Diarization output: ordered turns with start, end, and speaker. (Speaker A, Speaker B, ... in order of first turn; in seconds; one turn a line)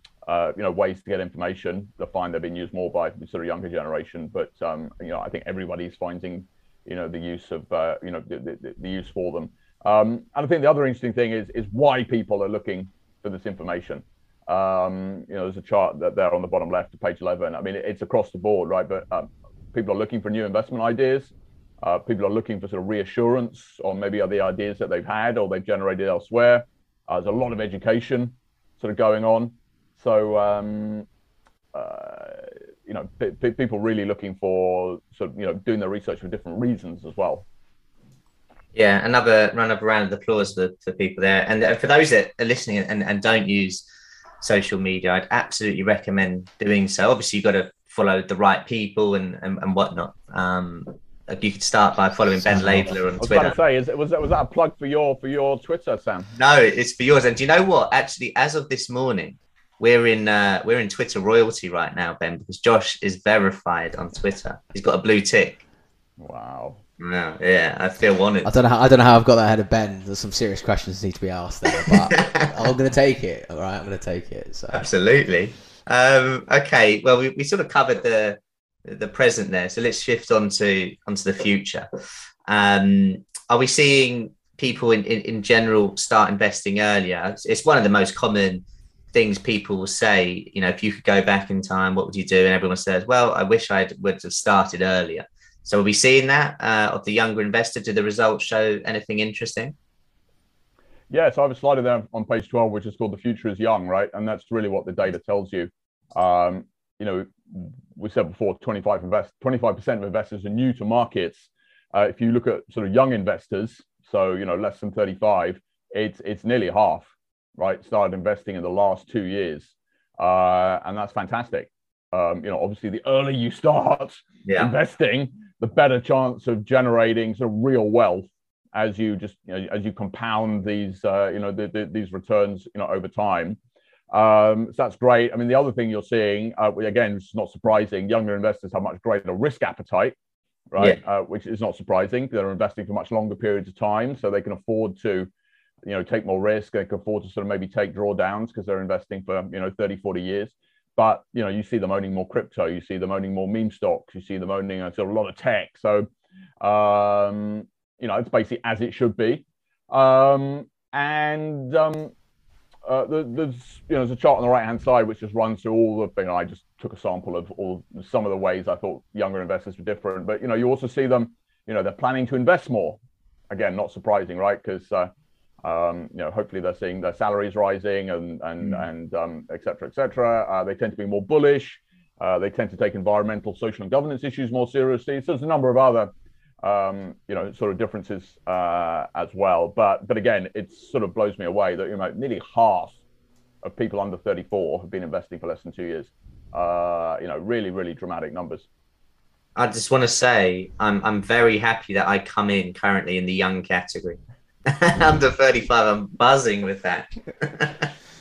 Speaker A: 0.2-31.1
Speaker A: 31.7-37.5
Speaker B: 38.7-43.8
Speaker B: 44.4-53.5
Speaker C: 52.5-53.0
Speaker A: 53.2-56.3
Speaker B: 56.4-65.6
Speaker A: 66.2-66.8
Speaker B: 67.0-68.5
Speaker C: 68.4-74.9
Speaker B: 71.8-72.4
Speaker B: 74.7-81.9
Speaker B: 82.5-99.7
Speaker A: 101.1-133.6
Speaker B: 124.5-124.7
Speaker A: 134.1-140.1
Speaker A: 140.7-145.3
Speaker A: 145.8-156.1
Speaker A: 156.6-162.1
Speaker A: 162.8-173.0
Speaker A: 173.5-175.1
Speaker A: 175.6-186.1
Speaker A: 186.6-193.0
Speaker A: 193.6-198.7
Speaker B: 199.6-207.9